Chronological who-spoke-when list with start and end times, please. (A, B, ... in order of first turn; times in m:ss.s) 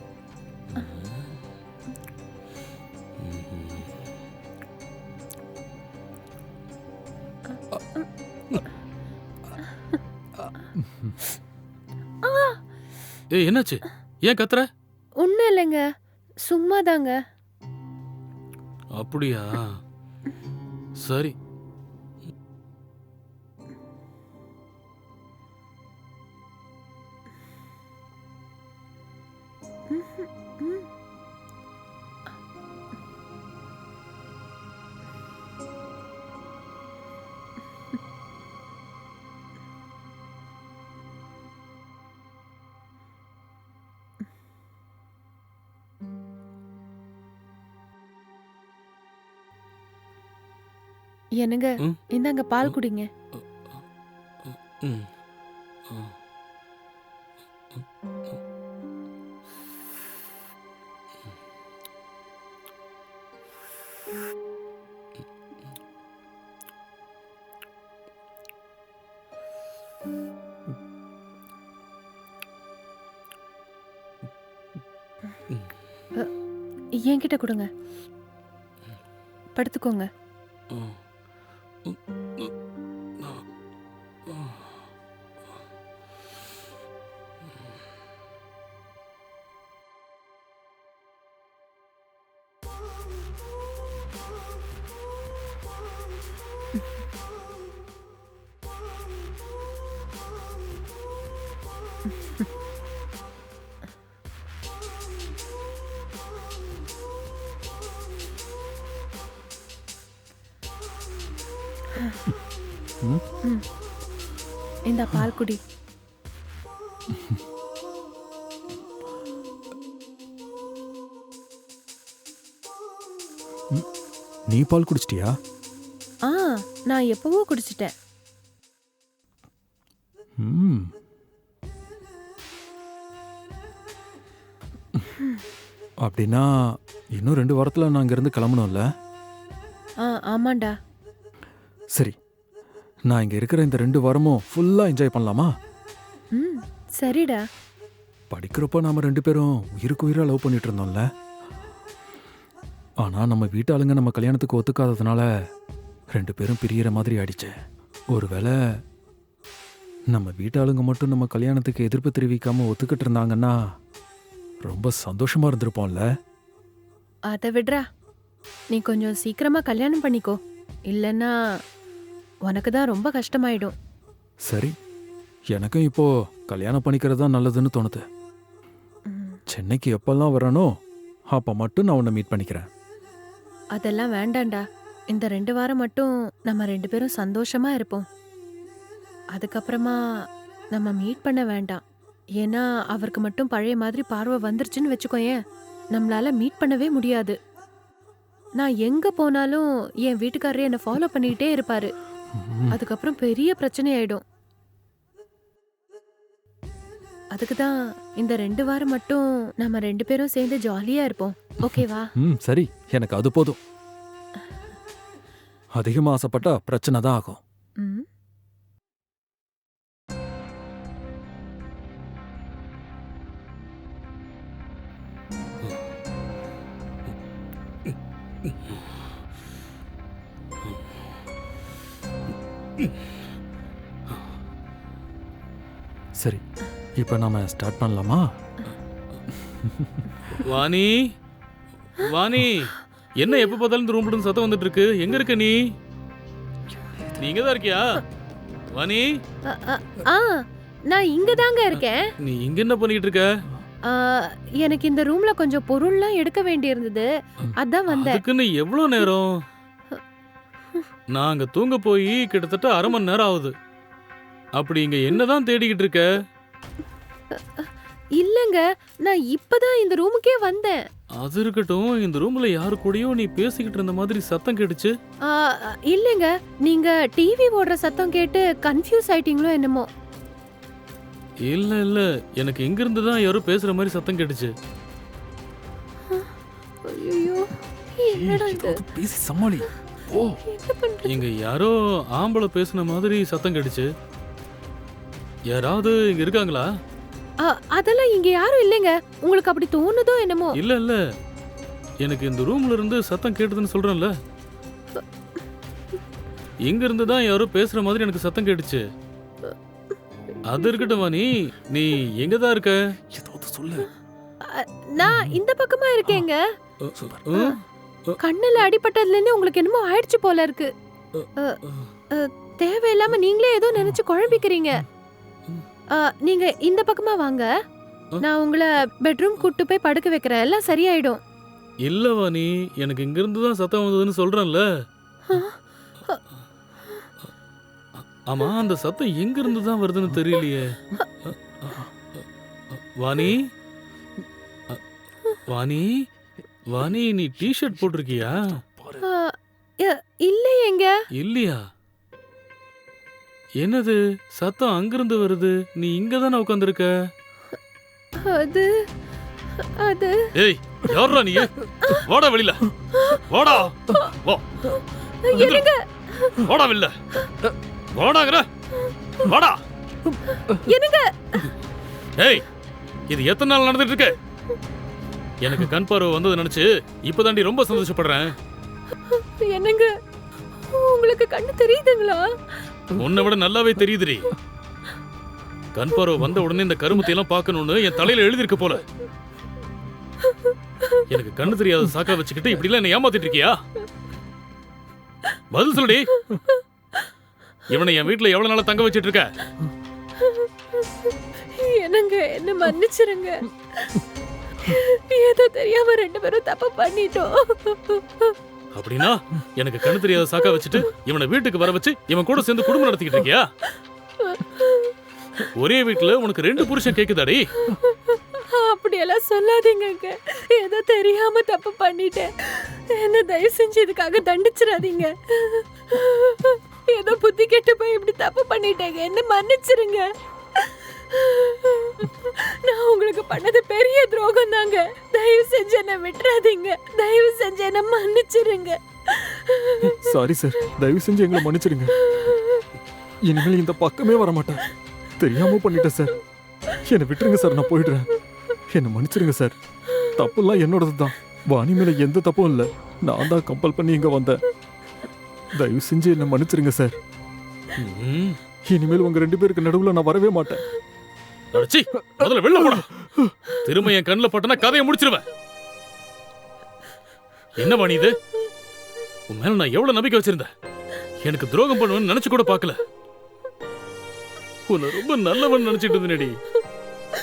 0:00.7-0:01.2 A
0:03.2-0:03.9 A
0:07.5-0:08.1 B
0:10.4-0:11.2 C
0:12.2-0:12.6 B
0:13.3-0:14.7 A
0:15.2-0:15.8 B
0:16.5-0:17.2 B
0:19.0-0:19.8 A
0:21.0-0:21.4 A
0:29.9-0:30.9 B
0:51.4-0:53.1 B
0:54.5-0:55.1 A
0:55.9-0:56.1 A
1:17.0-1:17.7 B
1:19.6-1:20.1 B
1:20.7-1:21.0 A
1:21.8-1:22.5 A
1:24.3-1:24.5 A
1:52.0-1:52.2 B
1:54.9-1:55.6 B
1:57.1-1:57.4 C
2:04.5-2:05.4 C
2:06.3-2:07.9 B
2:10.4-2:10.9 C
2:16.0-2:16.5 C
2:17.2-2:18.8 C
2:20.0-2:20.7 B
2:23.1-2:25.5 C
2:26.4-2:27.4 B
2:28.3-2:31.0 C
2:33.0-2:35.3 C
2:36.1-2:37.5 C
2:38.1-2:38.6 C
2:40.1-2:43.6 C
2:44.6-2:46.1 C
2:47.3-2:47.8 B
2:48.7-2:50.4 B
2:50.9-2:51.3 B
2:52.5-2:53.7 B
2:54.5-2:54.8 C
2:55.5-2:58.0 C
2:59.1-2:59.4 B
2:59.5-3:00.7 C
3:01.3-3:02.7 C
3:03.8-3:08.0 B
3:09.3-3:10.0 B
3:10.7-3:11.8 B
3:12.4-3:15.4 B
3:15.9-3:17.4 B
3:18.6-3:21.9 B
3:22.3-3:22.8 C
3:22.7-3:24.2 B
3:27.4-3:32.1 B
3:31.7-3:33.6 C
3:35.8-3:37.4 C
3:37.8-3:38.1 B
3:57.0-3:58.3 C
3:59.4-4:00.1 C
4:00.3-4:01.1 A
4:02.0-4:05.6 A
4:07.2-4:08.0 A
4:08.7-4:09.2 A
4:09.5-4:12.1 B
4:12.2-4:13.3 A
4:13.9-4:18.2 B
4:17.9-4:19.3 A
4:21.1-4:23.6 A
4:24.6-4:26.2 A
4:27.3-4:30.8 B
4:31.2-4:34.9 A
4:35.3-4:39.9 B
4:41.4-4:44.5 A
4:46.8-4:48.8 B
4:48.1-4:50.4 C
4:50.4-4:51.2 B
4:51.0-4:53.9 A
4:55.5-4:56.7 A
4:57.4-5:00.6 B
5:00.6-5:01.0 A
5:02.0-5:04.1 A
5:06.6-5:08.8 A
5:10.5-5:13.0 A
5:10.5-5:10.9 B
5:13.1-5:13.9 C
5:14.4-5:16.4 B
5:15.0-5:15.4 C
5:16.8-5:18.2 A
5:18.2-5:20.7 B
5:21.1-5:21.9 A
5:22.1-5:24.8 B
5:25.9-5:27.5 B
5:28.2-5:31.2 B
5:31.8-5:34.7 A
5:35.3-5:36.2 B
5:38.3-5:42.2 A
5:42.7-5:43.5 A
5:45.5-5:46.1 A
5:46.7-5:48.6 A
5:48.6-5:49.0 C
5:49.0-5:50.9 B
5:51.1-5:51.6 A
5:53.6-5:57.0 A
5:58.2-5:58.8 B
5:59.6-6:00.3 B
6:00.4-6:04.7 A
6:02.9-6:03.3 B
6:03.9-6:04.1 B
6:04.6-6:06.4 B
6:05.3-6:05.7 A
6:06.3-6:07.0 A
6:08.0-6:08.5 A
6:09.2-6:09.6 A
6:10.2-6:11.5 B
6:12.2-6:12.5 A
6:13.1-6:14.2 A
6:15.4-6:18.4 A
6:19.0-6:19.9 B
6:20.6-6:22.3 B
6:23.0-6:24.3 A
6:25.7-6:28.8 A
6:30.3-6:31.0 B
6:31.1-6:33.6 A
6:35.5-6:36.1 A
6:36.1-6:37.1 B
6:37.7-6:39.3 A
6:40.2-6:44.0 B
6:44.6-6:48.4 B
6:48.8-6:53.5 A
6:54.2-6:55.0 B
6:55.4-6:57.5 A
6:57.6-7:20.1 B
7:19.8-7:22.0 C
7:22.0-7:22.7 B
7:23.2-7:26.2 C
7:26.7-7:28.2 C
7:28.7-7:34.4 C
7:35.5-7:37.0 C
7:37.8-7:38.4 A
7:38.7-7:40.6 C
7:41.5-7:43.0 A
7:43.0-7:43.4 C
7:43.5-7:45.3 A
7:47.6-7:48.2 A
7:49.3-7:50.5 A
7:51.2-7:52.9 A
7:54.7-7:56.4 A